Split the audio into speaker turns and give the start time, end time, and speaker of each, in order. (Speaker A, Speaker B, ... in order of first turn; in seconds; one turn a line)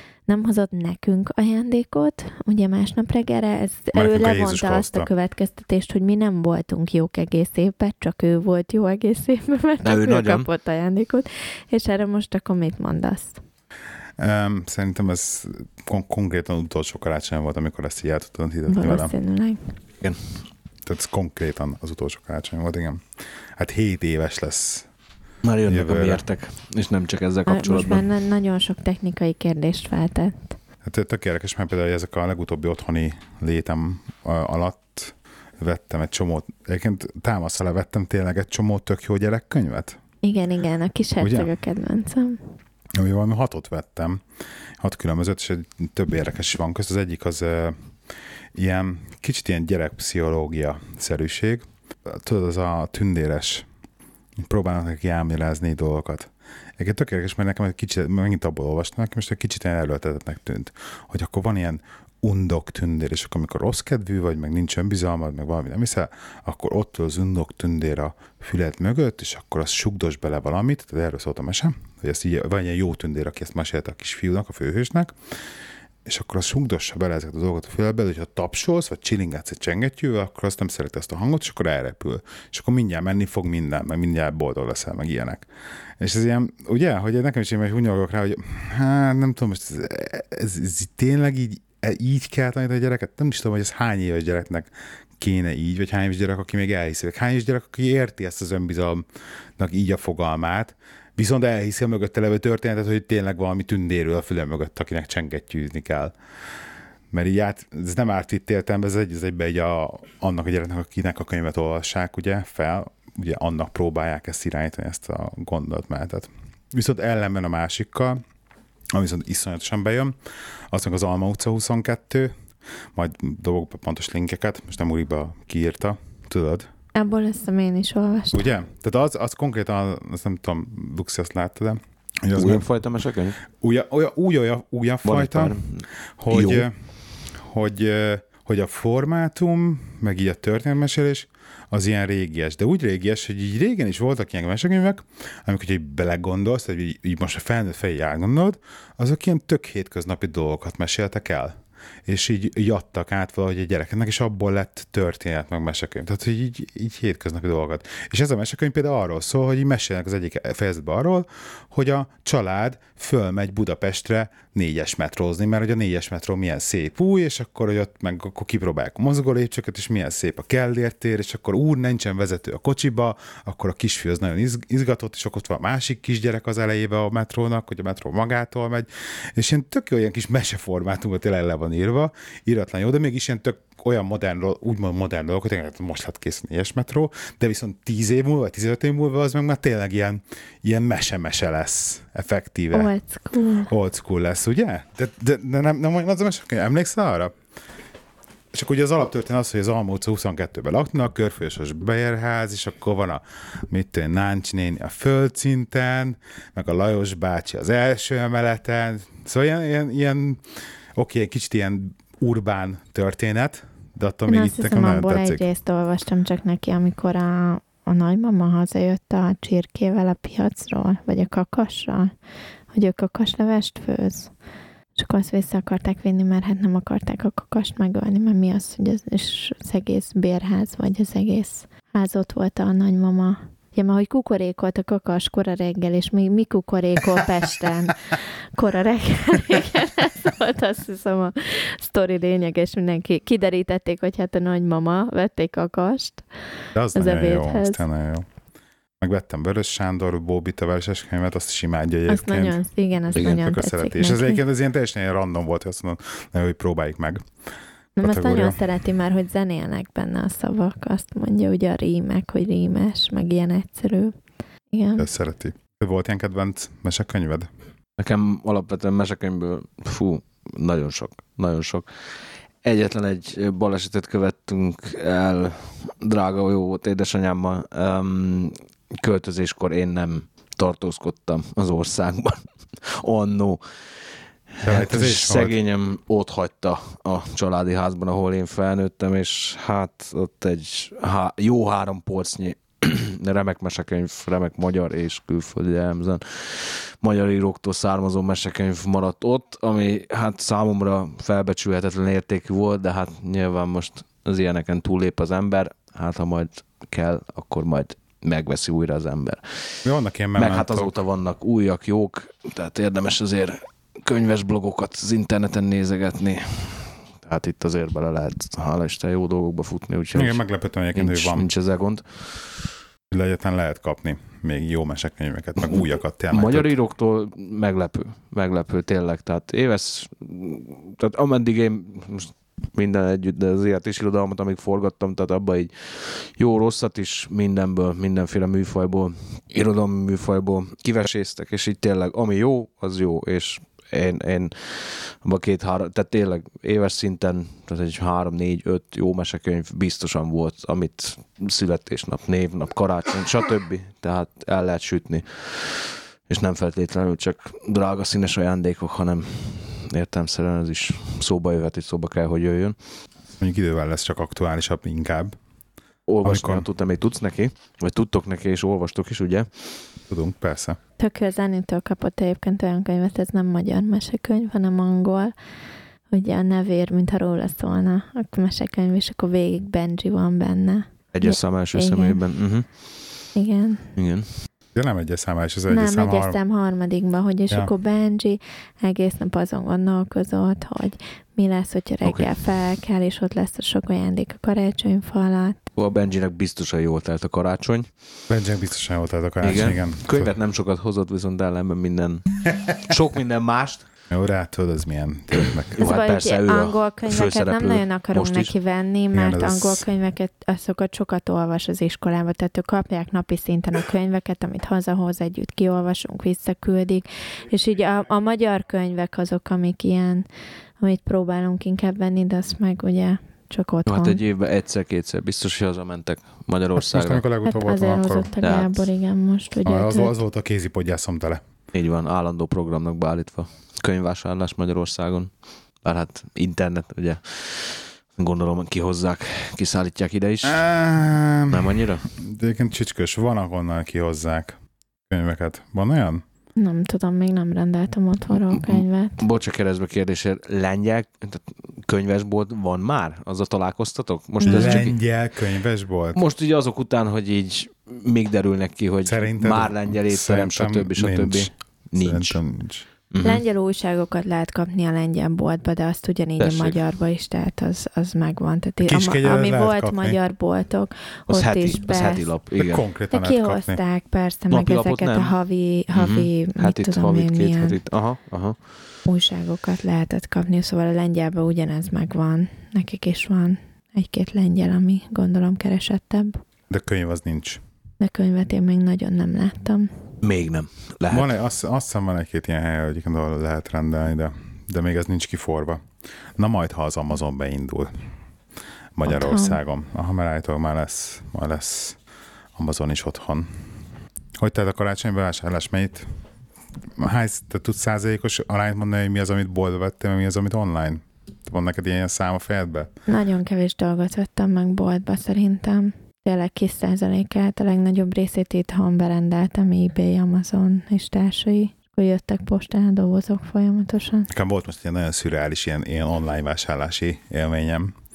Speaker A: 0.3-13.4
Speaker B: 3.9-5.1
Speaker C: 9.8-10.5
Speaker B: 14.2-19.1
Speaker A: 18.7-19.7
Speaker C: 20.0-20.4
Speaker B: 20.9-23.0
Speaker B: 23.6-24.9
Speaker C: 25.4-28.1
Speaker B: 25.7-26.2
Speaker A: 27.5-30.6
Speaker B: 30.8-40.0
Speaker A: 40.2-42.4
Speaker B: 41.2-41.5
Speaker B: 43.0-44.2
Speaker B: 44.8-47.8
Speaker B: 48.6-53.6
Speaker B: 54.4-75.2
Speaker B: 76.1-85.5
Speaker B: 86.0-99.0
Speaker B: 99.6-106.1
Speaker B: 107.1-118.2
Speaker B: 118.9-120.1
Speaker B: 120.7-122.3
Speaker B: 123.0-126.7
Speaker A: 127.0-128.4
Speaker B: 128.3-132.7
Speaker C: 132.4-133.4
Speaker B: 133.6-135.7
Speaker C: 135.0-136.7
Speaker B: 136.2-136.8
Speaker B: 137.3-151.6
Speaker B: 152.1-192.9
Speaker A: 192.7-193.7
Speaker B: 193.7-197.3
Speaker B: 198.5-215.4
Speaker A: 214.3-222.1
Speaker A: 222.7-224.3
Speaker A: 225.0-246.3
Speaker B: 246.7-248.3
Speaker A: 246.9-247.8
Speaker B: 249.0-252.6
Speaker A: 252.1-254.4
Speaker C: 253.1-253.5
Speaker B: 253.2-257.2
Speaker A: 258.0-264.1
Speaker B: 258.0-258.6
Speaker A: 264.7-265.1
Speaker B: 265.0-267.5
Speaker C: 268.0-309.8
Speaker B: 284.6-285.6
Speaker B: 309.8-310.9
Speaker C: 310.4-320.4
Speaker B: 320.1-321.5
Speaker C: 320.9-322.7
Speaker B: 323.1-326.7
Speaker C: 325.7-362.8
Speaker B: 363.4-365.4
Speaker C: 366.1-369.7
Speaker B: 366.2-366.6
Speaker B: 370.1-370.8
Speaker A: 371.0-375.3
Speaker A: 376.1-382.2
Speaker C: 381.1-382.7
Speaker A: 383.4-383.9
Speaker C: 384.0-384.3
Speaker B: 384.7-386.4
Speaker A: 385.7-395.6
Speaker C: 392.0-392.3
Speaker C: 395.8-397.9
Speaker B: 398.3-400.3
Speaker C: 399.4-403.9
Speaker B: 404.1-405.8
Speaker C: 405.7-408.5
Speaker A: 405.8-420.3
Speaker B: 409.1-409.8
Speaker A: 420.8-424.2
Speaker C: 423.9-427.2
Speaker B: 426.8-428.3
Speaker A: 427.4-430.1
Speaker C: 428.4-428.9
Speaker B: 429.6-431.4
Speaker C: 431.7-440.6
Speaker B: 440.4-444.6
Speaker C: 441.5-442.1
Speaker B: 445.1-446.2
Speaker A: 446.6-449.2
Speaker C: 448.5-454.9
Speaker A: 454.4-454.9
Speaker B: 454.5-456.2
Speaker C: 456.1-462.4
Speaker B: 459.0-462.9
Speaker C: 463.1-463.4
Speaker A: 463.2-472.3
Speaker C: 466.4-466.8
Speaker B: 468.8-470.2
Speaker C: 471.3-472.9
Speaker B: 472.6-473.8
Speaker A: 473.1-477.8
Speaker C: 474.5-475.3
Speaker C: 475.9-478.6
Speaker A: 479.1-486.4
Speaker B: 486.7-487.6
Speaker A: 488.0-489.9
Speaker C: 490.2-491.3
Speaker B: 491.1-495.8
Speaker B: 496.4-498.1
Speaker B: 499.0-502.0
Speaker A: 499.1-499.6
Speaker B: 502.6-503.5
Speaker B: 504.4-506.1
Speaker B: 507.0-512.9
Speaker A: 513.1-524.3
Speaker B: 524.3-528.0